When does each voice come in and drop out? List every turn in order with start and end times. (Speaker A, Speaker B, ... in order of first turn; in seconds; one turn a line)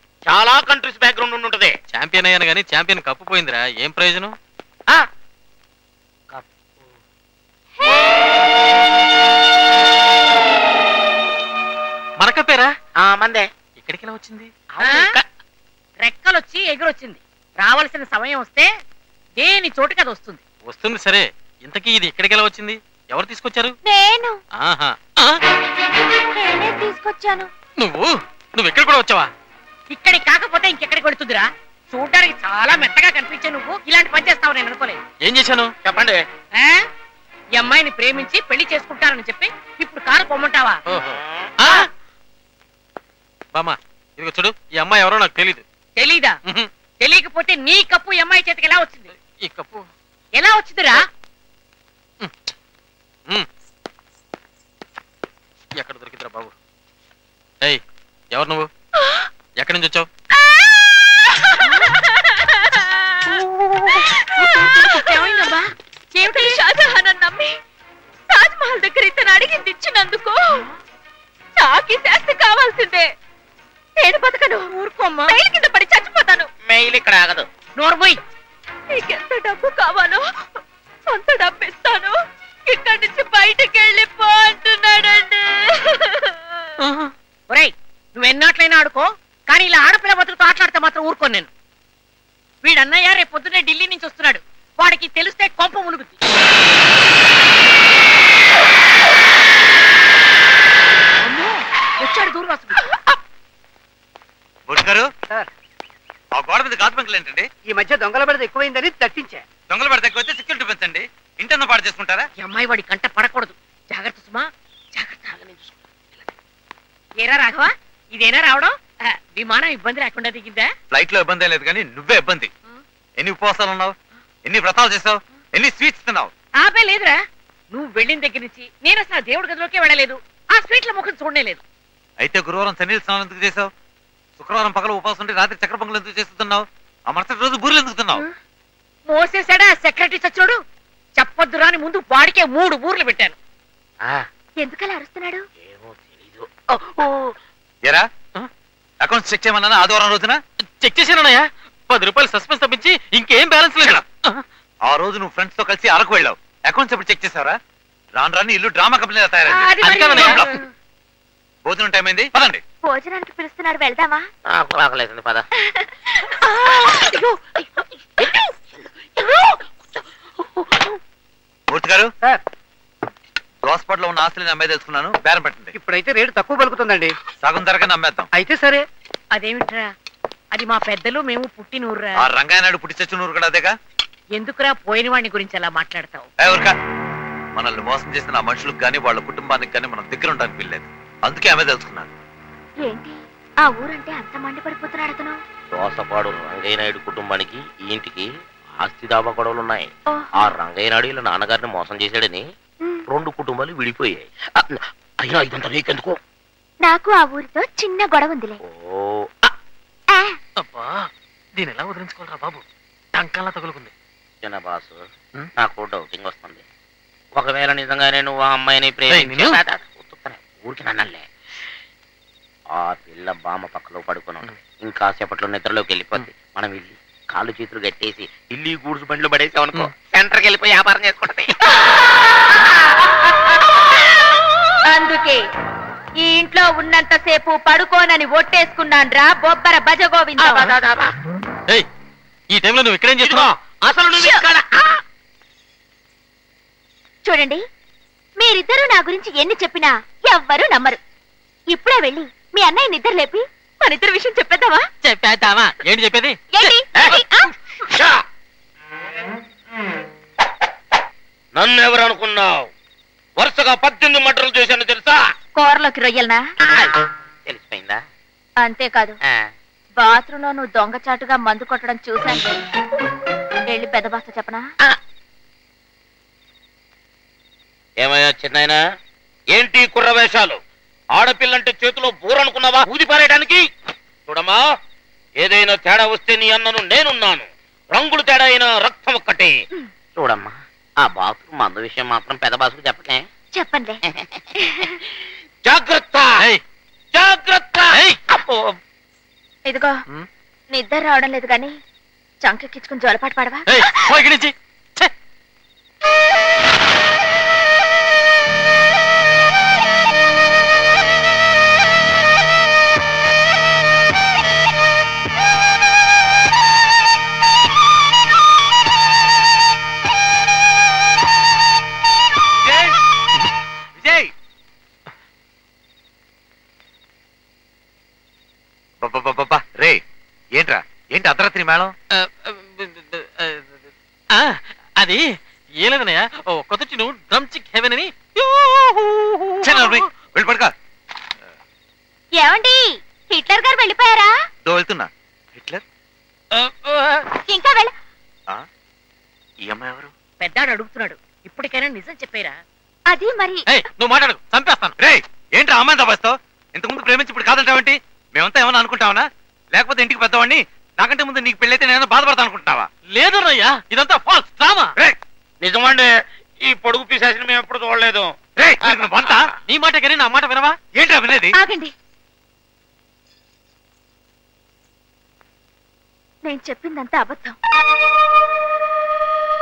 Speaker A: 0.3-1.7
Speaker B: 1.9-4.3
Speaker B: 12.2-12.7
Speaker A: 13.0-13.5
Speaker B: 13.8-14.5
Speaker A: 14.8-15.2
Speaker C: 14.8-15.1
Speaker C: 16.0-18.7
Speaker C: 19.4-20.4
Speaker B: 20.7-23.8
Speaker D: 23.8-24.4
Speaker B: 24.6-25.4
Speaker D: 26.4-27.5
Speaker B: 27.8-29.3
Speaker C: 29.9-35.0
Speaker B: 35.2-35.7
Speaker A: 35.8-36.2
Speaker C: 36.5-36.8
Speaker C: 37.5-40.8
Speaker B: 40.9-41.8
Speaker A: 41.2-41.5
Speaker B: 43.5-45.6
Speaker C: 46.0-46.4
Speaker C: 47.0-49.1
Speaker B: 49.2-49.9
Speaker C: 50.3-51.0
Speaker B: 55.8-56.5
Speaker B: 58.3-58.7
Speaker D: 59.0-59.2
Speaker B: 59.6-60.1
Speaker D: 60.3-65.5
Speaker C: 64.6-66.6
Speaker D: 66.2-67.5
Speaker D: 68.3-70.7
Speaker D: 71.6-73.1
Speaker D: 74.0-74.7
Speaker C: 74.7-75.4
Speaker D: 75.3-76.5
Speaker A: 76.7-77.5
Speaker C: 77.8-78.2
Speaker D: 78.9-80.2
Speaker D: 81.1-82.1
Speaker D: 82.7-86.6
Speaker B: 86.8-87.1
Speaker C: 87.5-91.5
Speaker C: 92.6-96.2
Speaker C: 101.2-102.8
Speaker E: 104.7-105.1
Speaker E: 106.3-107.5
Speaker F: 107.7-109.4
Speaker E: 109.7-112.3
Speaker C: 112.4-115.3
Speaker A: 115.3-116.2
Speaker C: 117.2-118.8
Speaker C: 119.3-120.7
Speaker E: 120.9-122.5
Speaker E: 123.2-123.9
Speaker E: 124.5-126.3
Speaker C: 126.6-127.2
Speaker C: 127.7-131.6
Speaker E: 132.2-133.7
Speaker E: 134.4-138.2
Speaker C: 139.1-140.6
Speaker C: 141.2-143.4
Speaker D: 144.6-145.4
Speaker A: 145.6-147.3
Speaker E: 149.0-150.4
Speaker B: 150.8-154.4
Speaker E: 154.9-157.6
Speaker E: 158.2-160.4
Speaker C: 159.5-160.6
Speaker B: 159.8-160.6
Speaker E: 161.7-162.6
Speaker D: 162.8-164.2
Speaker A: 164.5-165.4
Speaker D: 165.6-167.2
Speaker A: 169.2-169.6
Speaker A: 170.6-170.9
Speaker E: 171.7-172.1
Speaker E: 173.6-175.7
Speaker F: 175.8-177.1
Speaker E: 177.4-178.3
Speaker F: 178.3-178.8
Speaker C: 179.3-179.9
Speaker C: 180.5-182.2
Speaker E: 182.2-183.7
Speaker C: 184.4-186.3
Speaker E: 186.4-186.7
Speaker E: 187.6-192.1
Speaker D: 192.8-195.4
Speaker A: 195.7-198.3
Speaker A: 198.8-199.9
Speaker A: 200.4-202.4
Speaker A: 203.1-206.2
Speaker D: 206.8-208.6
Speaker A: 208.7-209.5
Speaker D: 210.1-210.4
Speaker B: 210.6-212.6
Speaker B: 213.2-213.9
Speaker A: 214.4-215.1
Speaker A: 215.6-216.7
Speaker A: 217.3-221.3
Speaker B: 219.1-219.6
Speaker A: 222.8-231.6
Speaker D: 234.9-235.4
Speaker D: 236.2-240.7
Speaker A: 240.4-241.2
Speaker B: 242.5-243.5
Speaker A: 243.2-245.0
Speaker D: 244.2-244.4
Speaker D: 247.3-247.6
Speaker D: 248.4-251.0
Speaker D: 251.7-254.8
Speaker B: 255.0-256.8
Speaker D: 256.5-257.8
Speaker A: 257.9-258.2
Speaker A: 261.6-262.7
Speaker A: 263.4-265.2
Speaker D: 265.6-266.4
Speaker A: 266.7-266.9
Speaker A: 267.4-268.0
Speaker D: 268.6-269.2
Speaker D: 270.0-272.5
Speaker D: 273.7-274.6
Speaker A: 278.0-278.8
Speaker A: 279.5-280.6
Speaker A: 281.1-283.6
Speaker A: 284.3-284.6
Speaker A: 285.4-289.5
Speaker A: 290.2-293.2
Speaker D: 293.5-294.0
Speaker A: 294.1-294.4
Speaker A: 295.6-296.3
Speaker A: 297.1-298.6
Speaker D: 299.7-300.0
Speaker D: 300.7-301.7
Speaker D: 302.4-303.9
Speaker B: 303.7-305.1
Speaker E: 322.6-323.0
Speaker E: 323.9-324.3
Speaker E: 329.0-330.0
Speaker E: 330.6-331.9
Speaker B: 332.1-335.2
Speaker B: 335.8-340.0
Speaker E: 339.6-340.7
Speaker D: 342.4-344.3
Speaker E: 344.6-345.8
Speaker A: 346.5-347.2
Speaker D: 347.4-347.9
Speaker E: 349.6-350.1
Speaker C: 350.4-352.6
Speaker D: 353.1-353.7
Speaker B: 353.7-354.9
Speaker E: 355.0-362.9
Speaker B: 363.1-364.9
Speaker A: 365.6-366.1
Speaker A: 366.6-369.4
Speaker E: 368.6-369.3
Speaker B: 369.2-370.8
Speaker E: 370.9-371.6
Speaker D: 371.5-371.9
Speaker D: 376.4-377.6